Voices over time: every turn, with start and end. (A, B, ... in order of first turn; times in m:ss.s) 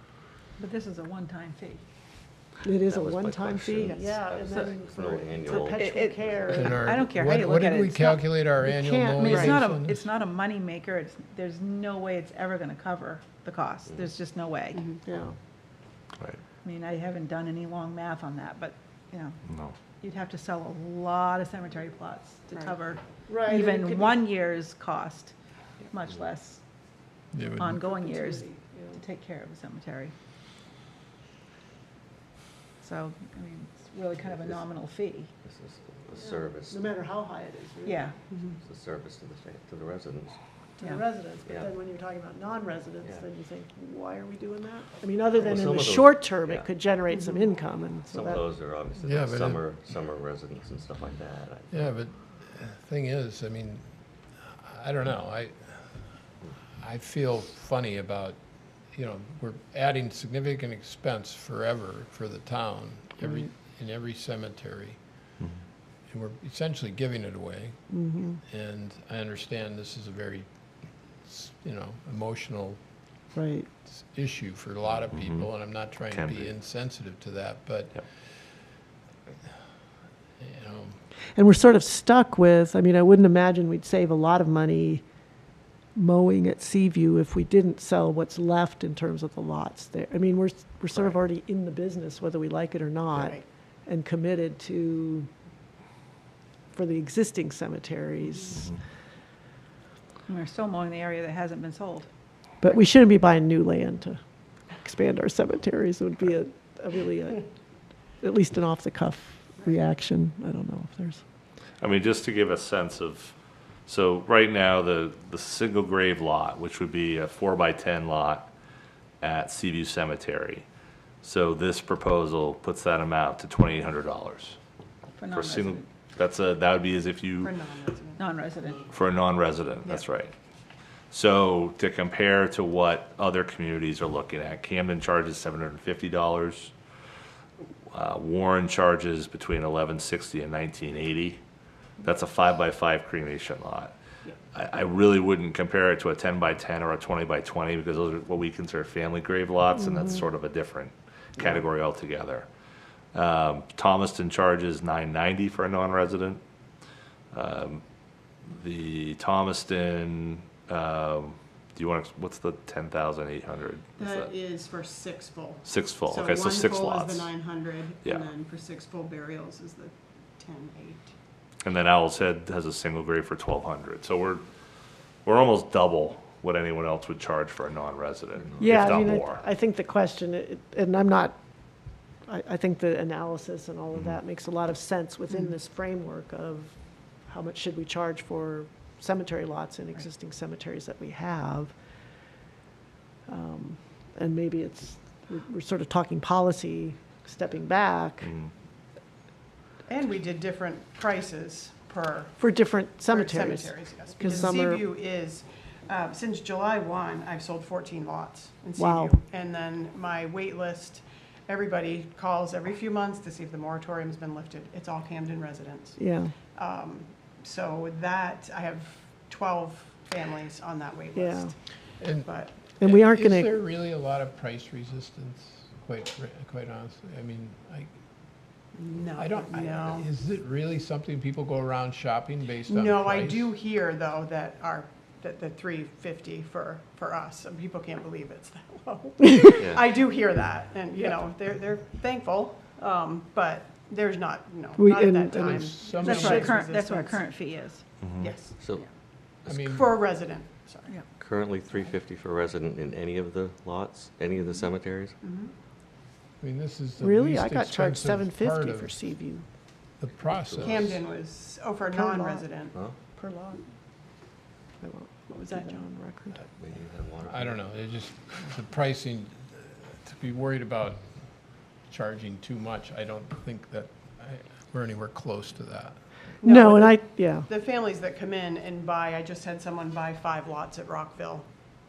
0:00.6-0:01.8 A
0:02.6-0:06.9 B
0:02.6-0:06.9 C
0:05.6-0:08.5 A
0:06.5-0:10.1 D
0:08.6-0:09.6 B
0:09.2-0:14.9 A
0:13.9-0:14.1 C
0:14.7-0:15.0 E
0:15.0-0:15.4 B
0:16.6-0:19.4 A
0:19.5-0:19.8 F
0:20.0-0:25.3 A
0:22.5-0:22.8 E
0:23.3-0:24.2 B
0:25.8-0:26.6 A
0:27.3-0:27.8 D
0:27.5-0:30.1 A
0:27.9-0:29.0 B
0:32.8-0:35.3 A
0:34.2-0:34.6 C
0:35.4-0:36.9 C
0:36.2-0:38.1 B
0:37.8-0:38.2 A
0:38.3-0:38.6 E
0:38.6-0:40.4 C
0:40.8-0:48.4 B
0:41.4-0:41.7 C
0:45.4-0:46.7 C
0:47.1-0:47.4 E
0:48.1-0:51.8 C
0:49.0-0:49.6 D
0:51.7-0:53.9 D
0:54.4-0:55.9 D
0:56.8-0:58.4 D
0:58.9-1:05.0 D
1:03.2-1:03.5 B
1:06.1-1:10.5 D
1:07.9-1:08.4 B
1:11.2-1:12.8 D
1:13.3-1:13.7 B
1:13.9-1:18.5 D
1:14.9-1:16.5 F
1:20.4-1:21.0 D
1:21.3-1:25.0 B
1:26.0-1:35.3 B
1:33.1-1:33.4 E
1:36.7-1:38.7 B
1:40.3-1:42.1 A
1:42.6-1:44.2 B
1:44.8-1:47.4 B
1:48.2-1:51.2 B
1:51.8-1:53.3 F
1:53.9-1:58.5 F
1:59.2-2:00.6 F
2:01.2-2:04.6 F
2:05.2-2:05.8 A
2:05.3-2:07.7 F
2:07.4-2:08.2 E
2:08.2-2:08.9 A
2:08.9-2:10.3 F
2:11.1-2:16.7 F
2:17.9-2:21.4 F
2:22.0-2:23.9 F
2:24.5-2:32.5 F
2:33.1-2:36.4 F
2:37.3-2:37.8 F
2:38.5-2:44.3 F
2:44.0-2:51.1 E
2:45.6-2:47.3 F
2:48.0-2:48.3 F
2:51.6-2:54.4 F
2:55.2-2:59.4 F
2:58.6-3:01.4 B
3:02.2-3:11.7 B
3:13.3-3:18.4 B
3:18.2-3:18.5 F
3:19.8-3:22.4 E
3:22.4-3:24.8 B
3:23.1-3:36.0 E
3:28.8-3:29.1 B
3:36.0-3:36.3 B
3:36.5-3:41.5 E
3:41.2-3:41.5 B
3:42.0-3:47.9 D
3:42.2-3:42.6 E
3:42.8-3:43.6 B
3:48.8-3:50.1 E
3:49.2-3:53.5 D
3:52.6-4:07.3 E
3:59.6-4:00.0 C
4:04.8-4:05.7 B
4:05.4-4:06.5 D
4:06.0-4:07.8 A
4:08.0-4:08.3 F
4:08.2-4:08.6 E
4:08.6-4:08.8 C
4:09.5-4:09.9 D
4:09.5-4:11.0 E
4:11.2-4:15.2 C
4:15.2-4:15.5 E
4:16.4-4:18.9 D
4:17.0-4:19.4 B
4:20.0-4:21.0 D
4:20.4-4:21.0 C
4:20.6-4:22.8 E
4:21.9-4:22.5 B
4:22.7-4:23.0 C
4:23.2-4:23.6 B
4:24.8-4:26.4 B
4:25.3-4:25.8 E
4:26.6-4:27.6 C
4:27.2-4:31.1 D
4:31.8-4:36.0 D
4:36.4-4:41.5 E
4:36.4-4:37.5 B